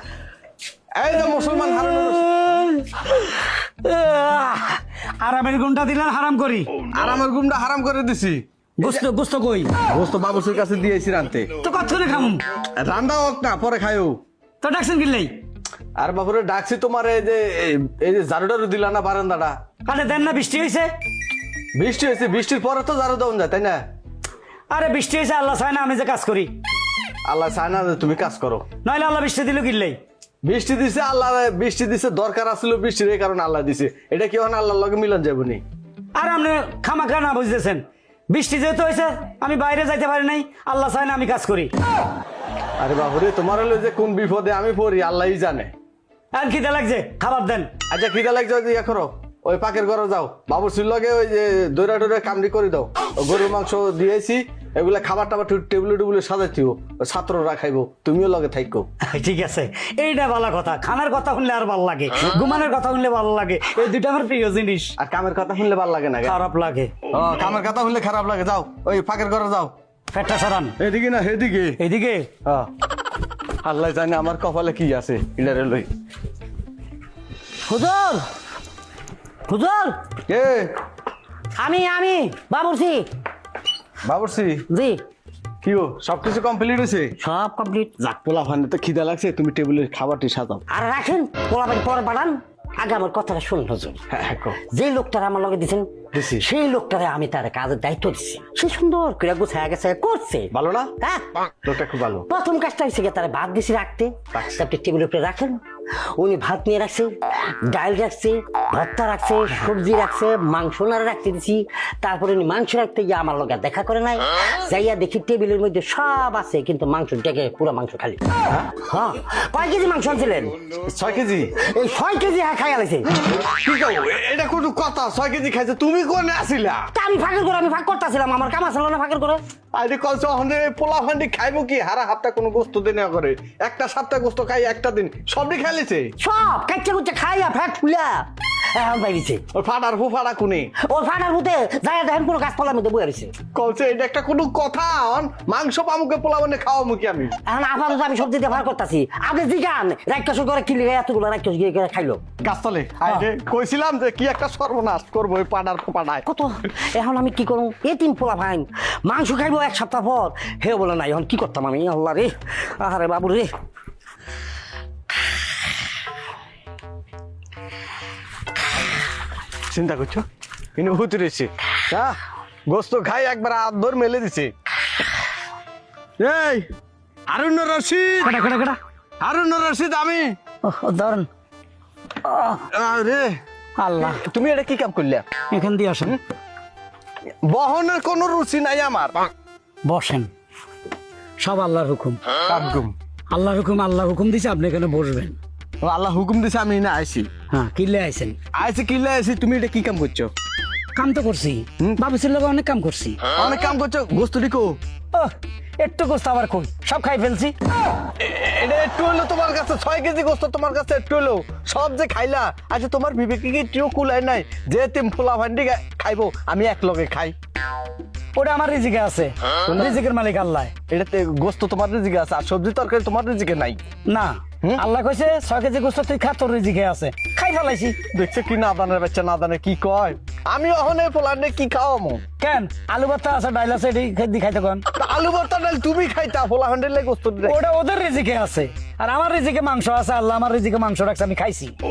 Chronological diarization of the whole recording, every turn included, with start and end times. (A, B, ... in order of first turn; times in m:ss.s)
0:01.0-0:02.4 A
0:01.7-0:06.7 B
0:06.9-0:09.0 A
0:08.8-0:09.8 B
0:09.8-0:11.5 A
0:11.6-0:12.4 B
0:12.6-0:14.2 A
0:14.6-0:15.4 B
0:16.0-0:19.6 A
0:19.9-0:20.9 B
0:21.8-0:23.8 A
0:24.7-0:26.5 B
0:27.2-0:28.7 A
0:28.8-0:30.0 B
0:30.4-0:35.6 A
0:36.2-0:41.7 B
0:42.8-0:45.7 A
0:46.3-0:47.7 B
0:47.9-0:58.9 A
0:59.0-1:05.0 B
1:05.0-1:06.4 A
1:06.2-1:06.9 B
1:07.1-1:09.7 A
1:10.1-1:10.8 B
1:10.8-1:11.8 A
1:11.8-1:12.3 B
1:12.4-1:12.7 A
1:13.6-1:15.9 A
1:17.7-1:18.3 C
1:19.5-1:20.0 C
1:20.3-1:20.7 A
1:21.6-1:23.1 C
1:24.0-1:24.6 A
1:24.7-1:25.0 C
1:25.6-1:27.1 A
1:27.2-1:28.2 C
1:28.2-1:30.6 A
1:30.7-1:34.0 C
1:34.1-1:34.6 A
1:34.6-1:41.2 C
1:36.1-1:36.4 A
1:40.5-1:40.9 A
1:41.6-1:42.3 A
1:42.3-1:45.6 C
1:44.3-1:44.6 A
1:46.2-2:00.6 C
2:00.8-2:01.6 A
2:01.6-2:03.1 C
2:03.3-2:06.9 A
2:06.9-2:09.4 C
2:09.7-2:16.1 A
2:16.2-2:19.4 C
2:19.5-2:20.7 A
2:20.8-2:23.3 C
2:23.5-2:27.4 A
2:27.4-2:32.2 C
2:32.4-2:36.2 A
2:36.2-2:43.5 C
2:49.7-2:52.1 A
2:52.7-2:54.5 A
2:56.2-2:56.7 A
2:57.3-2:58.4 A
2:58.2-2:58.8 B
2:59.2-3:00.4 A
3:00.6-3:01.3 B
3:02.2-3:02.6 B
3:02.7-3:03.4 A
3:03.8-3:04.2 B
3:04.0-3:05.2 A
3:05.5-3:06.2 B
3:07.4-3:09.2 A
3:09.8-3:10.3 B
3:11.4-3:12.2 B
3:12.4-3:12.9 A
3:13.3-3:15.4 B
3:15.8-3:17.3 A
3:17.5-3:18.4 B
3:18.5-3:20.3 A
3:21.0-3:23.2 B
3:23.4-3:24.8 A
3:25.1-3:27.5 B
3:28.2-3:37.3 A
3:38.3-3:40.7 B
3:39.6-3:40.0 A
3:40.9-3:43.8 A
3:44.1-3:48.0 B
3:48.1-3:52.2 A
3:52.4-3:54.8 B
3:54.9-3:57.6 A
3:57.4-4:01.7 B